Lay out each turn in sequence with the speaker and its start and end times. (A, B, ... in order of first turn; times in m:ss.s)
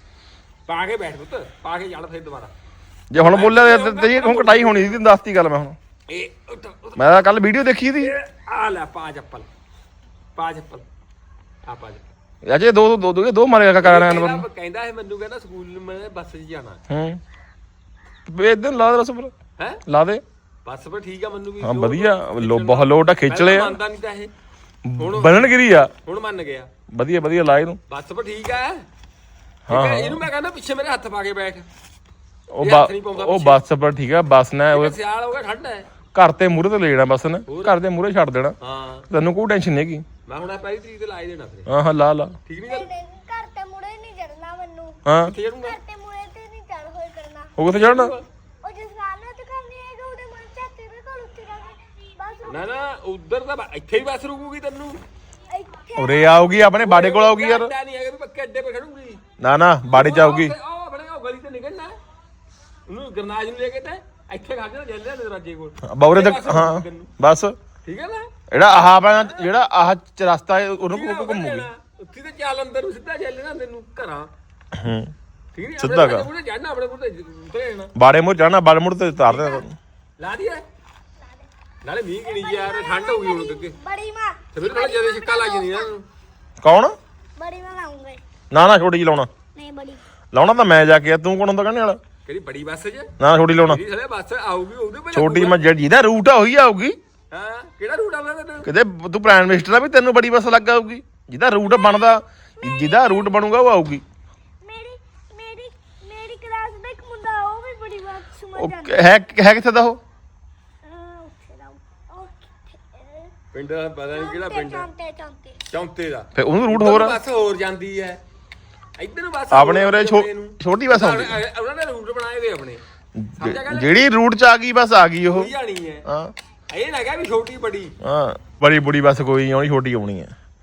0:00.7-0:02.5 A
0:03.1-0:05.8 B
0:03.2-0:05.0 A
0:06.1-0:07.2 A
0:07.0-0:08.1 B
0:08.0-0:09.5 A
0:10.4-0:10.9 A
0:11.6-0:12.1 A
0:12.4-0:14.5 B
0:13.8-0:16.8 A
0:16.9-0:17.2 B
0:18.3-0:19.3 B
0:19.6-0:19.8 A
0:19.9-0:20.2 B
0:20.7-0:24.3 A
0:21.6-0:23.8 B
0:24.8-0:25.9 B
0:25.0-0:25.5 A
0:26.0-0:26.7 A
0:26.9-0:27.8 B
0:27.9-0:28.8 A
0:29.7-0:30.3 B
0:29.7-0:31.7 A
0:32.5-0:35.0 B
0:32.6-0:33.6 A
0:34.7-0:35.9 A
0:36.1-0:38.6 B
0:37.5-0:37.8 A
0:38.6-0:39.1 A
0:39.1-0:40.0 B
0:40.3-0:41.7 A
0:41.7-0:42.4 B
0:42.5-0:42.9 A
0:42.7-0:45.0 C
0:45.1-0:45.3 B
0:45.2-0:45.8 A
0:45.6-0:47.5 C
0:47.6-0:48.1 B
0:47.7-0:48.2 A
0:48.6-0:52.9 C
0:52.4-0:55.0 A
0:55.5-0:56.5 C
0:56.0-0:57.7 B
0:56.8-0:59.2 A
0:59.4-1:00.6 B
0:59.9-1:02.0 A
1:02.9-1:07.1 A
1:05.8-1:07.6 B
1:07.8-1:08.3 A
1:08.5-1:11.7 B
1:08.9-1:09.5 A
1:10.9-1:14.3 A
1:14.7-1:15.1 B
1:15.5-1:17.9 A
1:15.8-1:16.3 B
1:18.0-1:19.8 B
1:19.3-1:19.6 C
1:20.2-1:20.6 A
1:21.8-1:23.8 A
1:22.2-1:25.9 C
1:24.5-1:26.0 A
1:26.6-1:27.0 B
1:27.4-1:28.2 C
1:28.5-1:29.3 B
1:29.6-1:30.0 C
1:30.3-1:32.0 B
1:32.3-1:35.6 A
1:33.2-1:33.8 B
1:35.1-1:37.0 B
1:37.3-1:38.7 A
1:38.6-1:44.0 B
1:41.6-1:43.3 C
1:44.6-1:49.0 C
1:48.6-1:50.0 B
1:50.8-1:53.3 C
1:53.5-1:54.9 A
1:54.1-1:55.6 C
1:55.7-1:58.2 A
1:56.4-1:57.2 B
1:59.0-2:02.8 A
1:59.5-2:01.4 B
2:03.2-2:05.5 B
2:03.4-2:04.1 A
2:05.3-2:06.1 A
2:06.0-2:06.3 B
2:06.7-2:07.9 A
2:08.0-2:10.3 B